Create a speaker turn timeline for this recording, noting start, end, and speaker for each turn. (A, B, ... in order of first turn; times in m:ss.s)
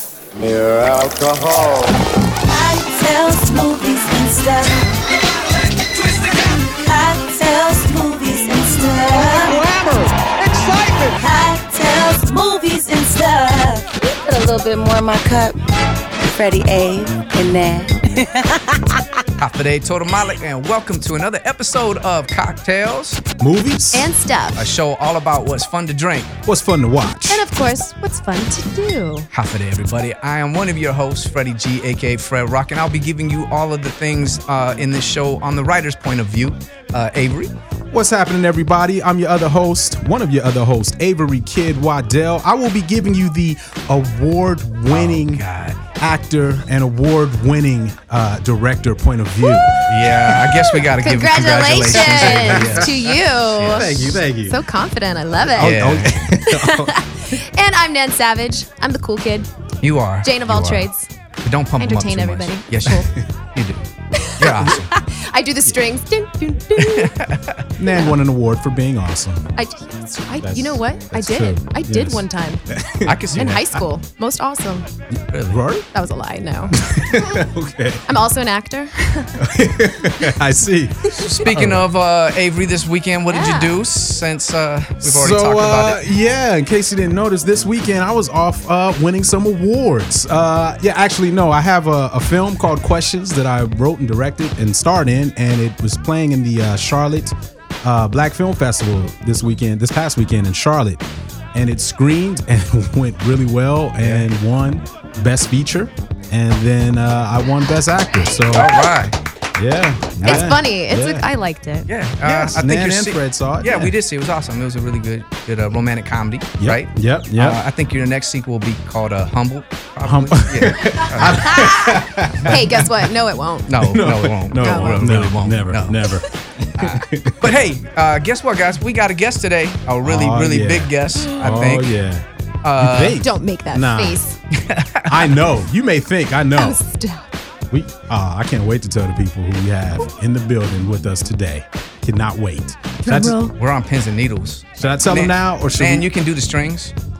0:00.4-0:02.0 A
0:02.4-0:04.9 B
0:05.6-0:09.8 B
0:09.8-0:11.0 A
0:10.5-0:15.6 B
0:16.2-0:19.0 B
0:19.4-0:23.2 C
0:23.4-0:24.1 D
0:23.9-0:24.7 E
0:24.6-0:26.4 C
0:26.4-0:27.4 D
0:27.3-0:29.3 E
0:29.3-0:37.6 C
0:37.9-0:45.4 D
0:44.9-0:45.8 C
0:46.0-0:50.6 D
0:49.4-0:49.8 E
0:49.9-0:54.1 C
0:50.3-0:59.5 E
0:51.8-0:54.6 D
0:55.3-0:57.0 D
0:55.6-0:56.2 C
0:59.8-1:00.8 C
1:00.2-1:01.1 E
1:01.4-1:03.8 C
1:01.8-1:03.1 E
1:04.2-1:07.2 E
1:04.4-1:04.9 C
1:06.8-1:07.6 C
1:07.8-1:09.5 D
1:07.9-1:08.2 E
1:09.6-1:12.6 E
1:10.4-1:13.8 D
1:13.0-1:13.6 C
1:13.4-1:14.8 E
1:15.1-1:15.9 D
1:15.3-1:15.6 C
1:15.9-1:16.8 E
1:16.7-1:18.0 D
1:18.1-1:19.4 E
1:19.4-1:21.9 D
1:21.2-1:26.0 C
1:23.3-1:23.8 E
1:25.0-1:48.9 D
1:44.0-1:44.3 C
1:48.4-1:49.2 C
1:49.6-1:51.3 D
1:50.2-1:51.9 E
1:51.9-2:01.7 C
1:52.2-1:53.9 D
1:56.6-1:57.6 D
2:00.0-2:03.1 D
2:01.4-2:03.7 E
2:03.7-2:06.1 C
2:03.7-2:07.6 D
2:04.6-2:05.1 E
2:06.8-2:12.0 C
2:10.0-2:14.2 D
2:12.6-2:13.2 C
2:13.2-2:14.4 E
2:14.5-2:15.4 C
2:15.1-2:16.8 D
2:16.5-2:17.3 E
2:17.7-2:23.5 D
2:23.0-2:23.5 E
2:23.5-2:26.9 C
2:24.8-2:26.1 D